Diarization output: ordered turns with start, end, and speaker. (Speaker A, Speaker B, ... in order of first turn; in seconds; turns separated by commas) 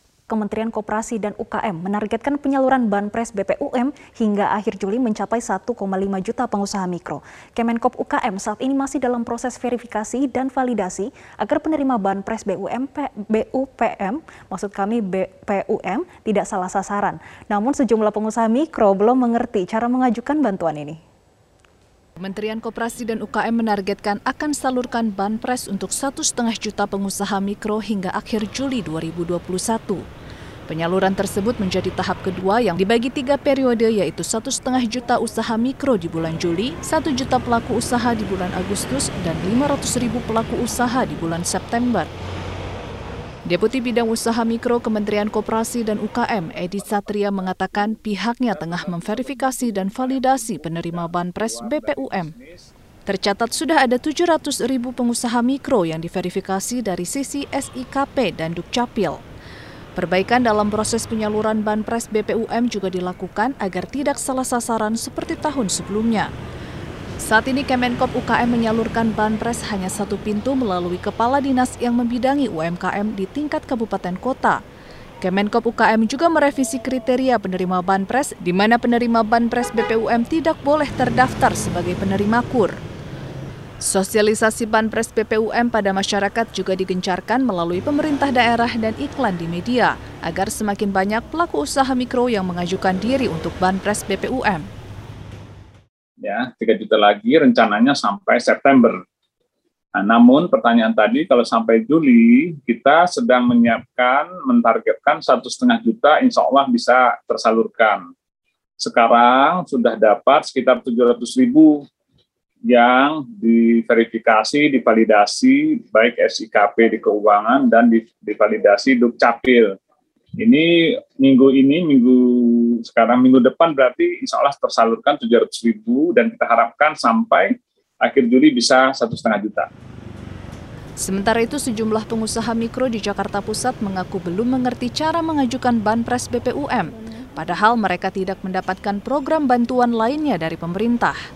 Speaker A: 0.3-21.0, Speaker B: 22.2-30.0, Speaker B: 30.7-42.1, Speaker B: 43.5-52.3, Speaker C: 47.7-47.9, Speaker C: 48.5-52.7, Speaker B: 53.1-59.2, Speaker B: 60.0-66.3, Speaker B: 67.2-74.6, Speaker B: 75.2-82.8, Speaker B: 83.8-94.7, Speaker C: 96.2-99.0, Speaker C: 99.9-108.0, Speaker C: 108.8-111.8, Speaker C: 112.6-119.7, Speaker C: 120.4-129.7, Speaker B: 131.0-141.2